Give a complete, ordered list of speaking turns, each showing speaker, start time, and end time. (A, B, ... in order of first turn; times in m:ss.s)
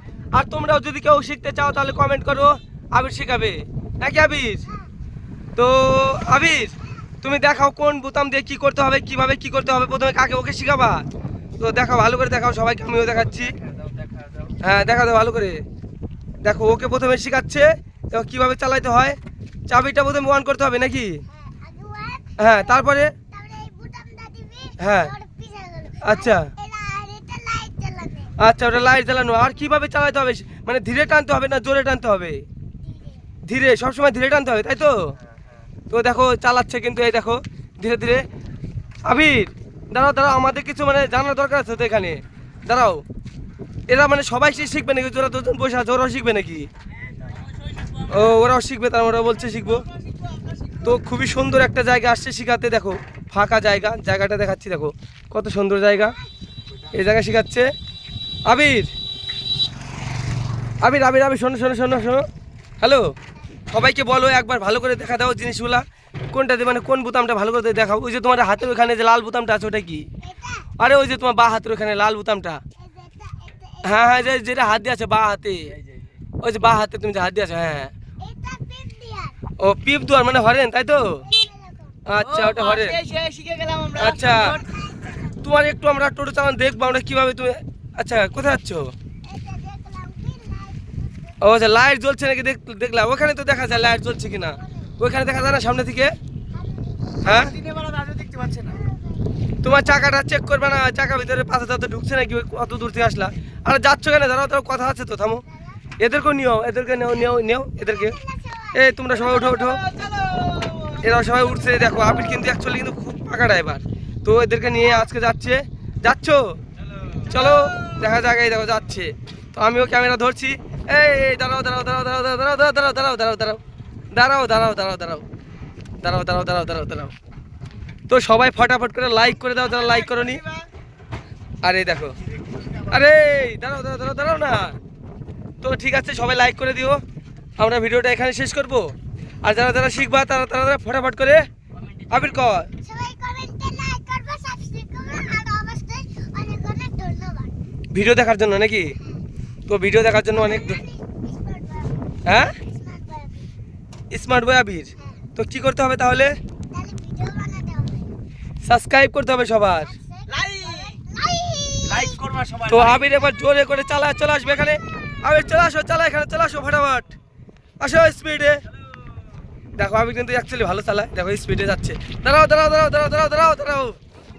0:00.3-0:04.7 A
0:05.6-0:11.0 A
0:11.6-0:13.6 A
0:14.6-0:15.6 A
0:16.4-0:19.2 A
0:19.7-0:21.2 A
0:21.3-0:28.4 B
0:22.4-0:23.1 A
0:24.8-0:25.1 A
0:26.0-0:26.5 A
0:28.4-0:32.4 A
0:32.8-0:33.2 B
0:33.5-0:35.0 A
0:35.9-0:38.2 A
0:39.1-0:43.0 A
0:43.9-0:46.7 A
0:48.0-0:49.9 A
0:50.8-0:56.2 A
0:56.9-0:57.7 A
0:58.5-0:58.9 A
1:00.8-1:02.3 A
1:02.8-1:03.1 A
1:03.7-1:10.1 A
1:10.2-1:10.7 B
1:10.8-1:12.6 A
1:12.8-1:14.3 B
1:13.8-1:15.8 A
1:16.4-1:17.9 A
1:18.2-1:19.4 B
1:19.6-1:21.2 A
1:21.2-1:22.0 B
1:22.1-1:23.0 A
1:22.3-1:24.6 C
1:24.0-1:24.6 A
1:24.6-1:25.2 B
1:25.4-1:28.9 A
1:29.2-1:31.4 B
1:31.4-1:36.1 A
1:34.6-1:34.9 B
1:36.5-1:37.4 B
1:37.2-1:37.6 A
1:37.6-1:38.8 C
1:38.7-1:39.2 B
1:39.6-1:45.4 A
1:46.0-1:48.2 A
1:47.8-1:48.8 B
1:48.7-1:49.9 A
1:49.6-1:51.0 C
1:51.0-1:56.6 A
1:57.3-2:03.6 A
2:04.1-2:05.2 A
2:06.0-2:07.1 A
2:08.1-2:10.4 A
2:09.9-2:10.5 C
2:11.6-2:12.2 A
2:12.8-2:14.8 A
2:15.6-2:17.0 A
2:17.6-2:21.4 A
2:22.1-2:22.7 A
2:22.8-2:27.6 B
2:27.9-2:29.0 A
2:29.7-2:30.8 A
2:30.3-2:33.5 B
2:32.2-2:32.5 A
2:34.1-2:36.4 A
2:36.7-2:38.1 B
2:38.6-2:39.9 A
2:40.0-2:42.3 B
2:40.4-2:40.9 C
2:42.0-2:42.9 C
2:42.7-2:47.1 A
2:47.8-2:48.6 A
2:49.8-2:54.0 A